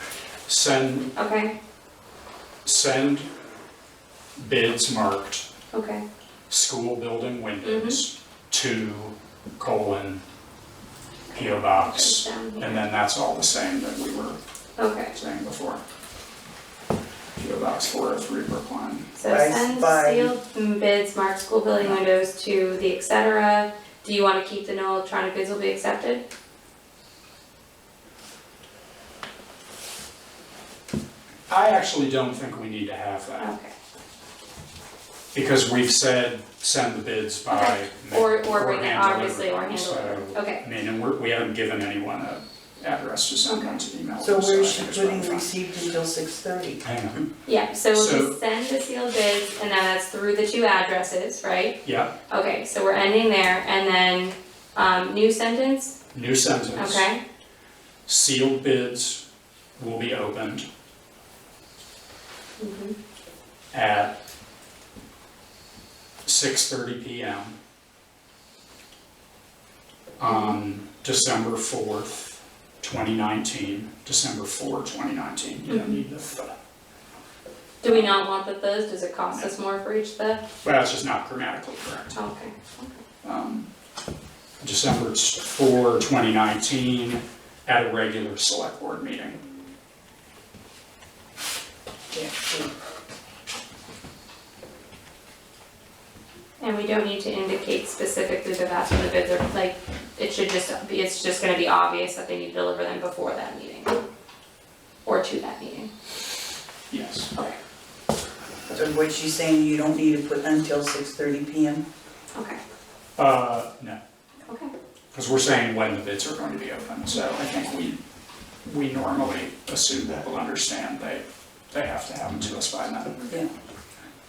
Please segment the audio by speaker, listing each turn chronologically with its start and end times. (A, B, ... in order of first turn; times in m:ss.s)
0:00.5-0:01.1 A
0:01.2-0:01.5 B
0:02.6-0:03.3 A
0:04.4-0:05.5 A
0:05.7-0:06.0 B
0:06.5-0:10.2 A
0:07.6-0:08.0 B
0:11.3-0:12.8 B
0:11.3-0:14.4 A
0:14.8-0:15.1 B
0:15.1-0:15.8 A
0:17.4-0:19.1 A
0:19.2-0:26.2 B
0:19.3-0:20.4 C
0:31.5-0:33.5 A
0:33.4-0:33.7 B
0:35.3-0:45.5 A
0:37.5-0:40.6 B
0:43.4-0:43.7 B
0:44.2-0:46.8 C
0:46.8-0:47.3 A
0:47.4-0:51.8 B
0:47.9-0:48.3 A
0:51.8-0:52.1 A
0:52.3-0:56.0 B
0:56.1-0:57.1 A
0:56.8-0:57.2 B
0:58.1-0:59.2 A
0:59.8-1:00.7 A
1:02.6-1:02.9 B
1:03.7-1:04.1 A
1:06.2-1:07.6 A
1:10.2-1:16.6 A
1:10.3-1:10.6 B
1:17.8-1:20.4 B
1:17.8-1:18.2 A
1:20.6-1:22.2 A
1:22.1-1:23.0 B
1:23.2-1:23.7 A
1:24.6-1:29.4 A
1:32.2-1:32.6 C
1:36.6-1:44.0 B
1:45.0-1:45.9 B
1:46.9-1:47.3 A
1:48.7-1:51.8 C
1:52.3-1:52.6 B
1:53.2-1:54.0 A
1:54.5-1:54.7 B
1:55.1-1:58.0 A
1:58.6-2:03.4 A